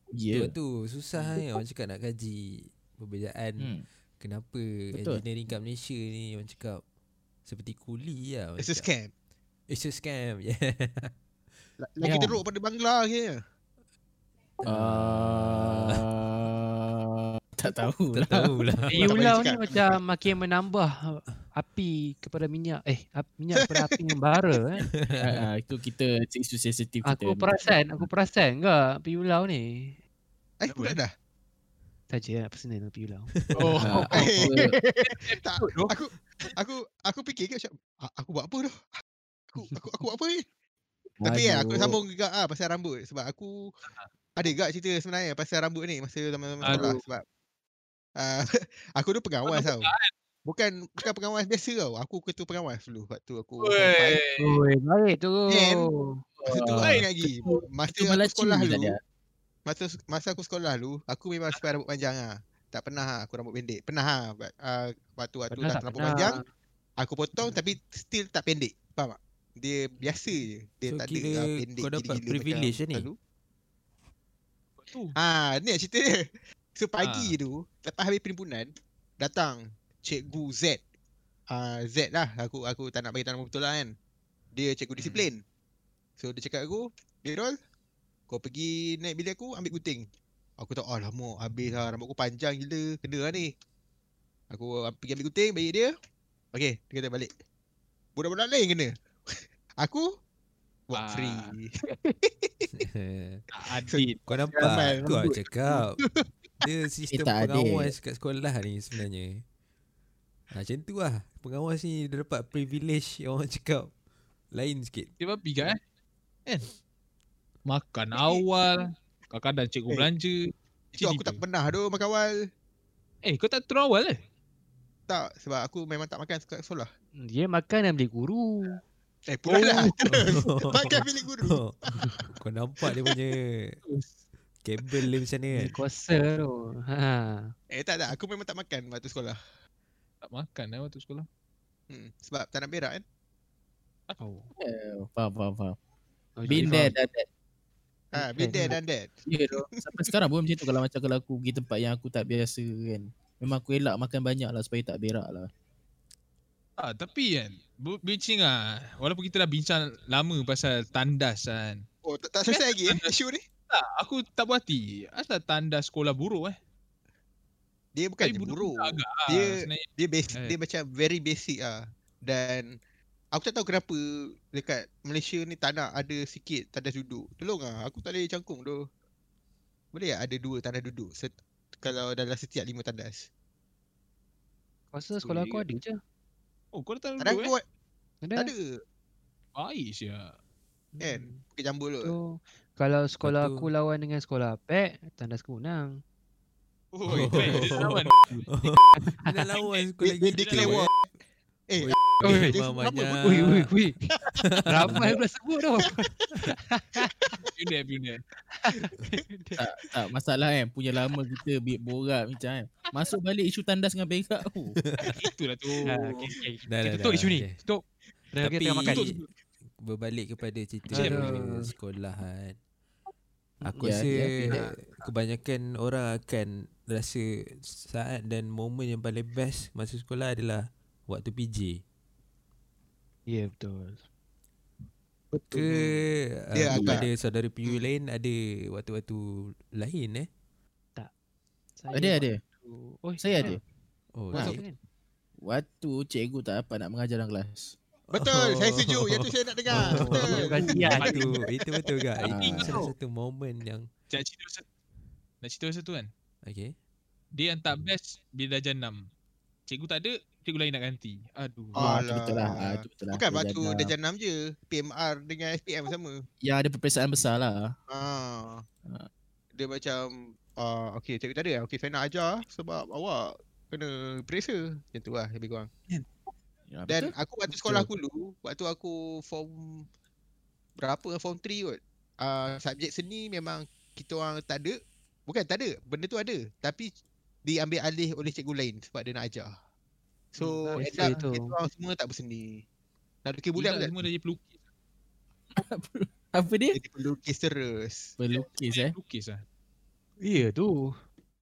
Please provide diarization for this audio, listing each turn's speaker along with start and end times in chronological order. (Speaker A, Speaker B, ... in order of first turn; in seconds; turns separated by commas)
Speaker A: 0.1-0.5, Speaker B: 0.3-6.8, Speaker A: 4.9-5.2, Speaker B: 7.5-8.9, Speaker C: 8.6-9.1, Speaker B: 9.7-11.1, Speaker C: 11.8-13.4, Speaker B: 14.6-16.0, Speaker A: 14.6-18.6, Speaker B: 18.1-19.1, Speaker D: 18.9-24.9, Speaker C: 19.0-20.0, Speaker B: 24.9-25.4, Speaker A: 25.2-27.6, Speaker D: 27.1-30.0, Speaker C: 30.6-31.1, Speaker E: 30.7-31.0, Speaker D: 32.1-34.4, Speaker B: 33.4-33.6, Speaker E: 33.5-34.5, Speaker A: 33.8-34.7, Speaker C: 34.1-38.9, Speaker E: 35.0-35.9, Speaker C: 39.5-40.4, Speaker A: 41.2-42.0, Speaker C: 41.2-43.7, Speaker C: 44.4-47.2, Speaker E: 46.6-47.0, Speaker C: 48.2-49.9, Speaker E: 49.5-50.1, Speaker C: 50.5-54.2, Speaker E: 53.6-54.6, Speaker D: 54.4-56.2, Speaker C: 55.5-55.9, Speaker A: 56.4-59.0, Speaker C: 56.5-59.0, Speaker E: 56.5-57.0, Speaker C: 59.6-66.4, Speaker D: 65.5-66.4, Speaker C: 67.0-73.2, Speaker B: 70.9-73.1, Speaker E: 74.8-75.1, Speaker C: 75.2-80.8, Speaker E: 77.0-77.3, Speaker C: 81.5-83.9, Speaker C: 84.5-85.4, Speaker E: 85.0-85.3, Speaker C: 86.2-87.5, Speaker C: 88.3-90.0, Speaker C: 90.6-93.5, Speaker C: 94.5-95.9, Speaker C: 96.5-97.3, Speaker C: 98.2-100.1, Speaker C: 100.9-102.7, Speaker E: 100.9-101.5, Speaker B: 102.7-103.4, Speaker E: 103.5-104.2, Speaker C: 103.8-106.2, Speaker B: 104.3-106.0, Speaker B: 106.6-109.4, Speaker A: 107.1-107.9, Speaker B: 110.5-113.9, Speaker B: 114.5-115.1, Speaker E: 115.2-115.8, Speaker E: 117.7-121.4, Speaker C: 118.2-118.4, Speaker C: 121.0-122.3, Speaker E: 123.2-124.2, Speaker C: 125.1-126.9, Speaker D: 127.2-128.8, Speaker C: 129.3-132.1, Speaker E: 129.4-129.9, Speaker B: 130.1-131.8, Speaker B: 132.4-133.8, Speaker E: 133.8-134.1, Speaker B: 134.6-135.8, Speaker D: 135.5-137.5, Speaker C: 137.7-139.4, Speaker E: 140.2-141.3, Speaker C: 141.9-143.0, Speaker D: 144.2-144.5, Speaker A: 144.6-145.8, Speaker D: 146.4-146.9, Speaker A: 146.5-147.3, Speaker E: 146.5-146.9, Speaker C: 148.1-149.1, Speaker D: 148.2-148.8, Speaker A: 149.2-155.5, Speaker E: 156.8-161.8, Speaker C: 162.0-163.4, Speaker E: 162.5-163.1, Speaker E: 163.7-166.5, Speaker C: 167.9-172.7, Speaker E: 168.2-170.6, Speaker C: 173.3-178.8, Speaker C: 179.9-181.3, Speaker C: 181.8-183.3, Speaker D: 184.9-186.0, Speaker E: 185.2-185.6, Speaker E: 186.7-187.5, Speaker C: 187.2-187.6, Speaker D: 188.2-188.5, Speaker C: 188.4-188.6, Speaker E: 189.6-190.3, Speaker D: 190.9-191.4, Speaker C: 191.0-192.1, Speaker D: 192.0-196.0, Speaker B: 193.2-193.7, Speaker E: 196.9-198.4, Speaker B: 197.1-200.9, Speaker D: 198.9-199.3, Speaker C: 200.0-201.1, Speaker E: 200.4-200.9, Speaker C: 201.7-203.4, Speaker B: 201.8-203.7, Speaker D: 202.2-204.0, Speaker C: 204.2-204.5, Speaker B: 204.4-205.1, Speaker D: 204.7-207.1, Speaker C: 207.2-207.5, Speaker E: 207.5-208.2, Speaker D: 208.6-209.6, Speaker A: 209.5-214.8, Speaker B: 214.8-215.2, Speaker E: 215.1-216.3, Speaker D: 215.8-219.2, Speaker B: 216.7-217.6, Speaker B: 218.4-219.1, Speaker E: 218.8-219.3, Speaker B: 219.8-222.6, Speaker D: 220.9-221.7, Speaker E: 220.9-221.3, Speaker D: 223.6-224.1, Speaker B: 223.6-231.8, Speaker A: 223.8-224.6, Speaker D: 233.3-234.0, Speaker B: 235.4-239.2, Speaker C: 236.5-237.1, Speaker A: 236.7-237.0, Speaker B: 239.7-240.3, Speaker D: 241.8-243.6, Speaker A: 241.9-242.4, Speaker A: 243.2-243.6, Speaker B: 244.2-244.6, Speaker D: 244.3-244.8, Speaker A: 245.4-247.8, Speaker C: 248.1-250.4, Speaker B: 248.1-253.9, Speaker D: 249.7-251.2, Speaker A: 250.5-251.1, Speaker E: 251.0-251.4, Speaker C: 251.4-251.9, Speaker A: 252.2-252.8, Speaker E: 252.2-252.8, Speaker E: 254.1-254.6, Speaker E: 255.4-256.1, Speaker B: 256.4-256.8, Speaker E: 257.4-259.0, Speaker E: 259.7-262.0, Speaker A: 261.7-263.9, Speaker C: 261.8-266.2, Speaker A: 266.4-267.7, Speaker C: 267.9-268.6, Speaker C: 269.6-275.7, Speaker A: 276.7-277.9, Speaker C: 276.9-279.8, Speaker C: 280.8-286.9, Speaker C: 287.4-289.5, Speaker C: 290.3-292.6, Speaker E: 290.4-291.1, Speaker D: 290.7-291.5, Speaker C: 293.2-293.9, Speaker E: 293.6-294.6, Speaker A: 295.6-296.8, Speaker C: 296.7-298.1, Speaker A: 298.2-298.9, Speaker E: 298.3-299.4, Speaker D: 300.2-300.9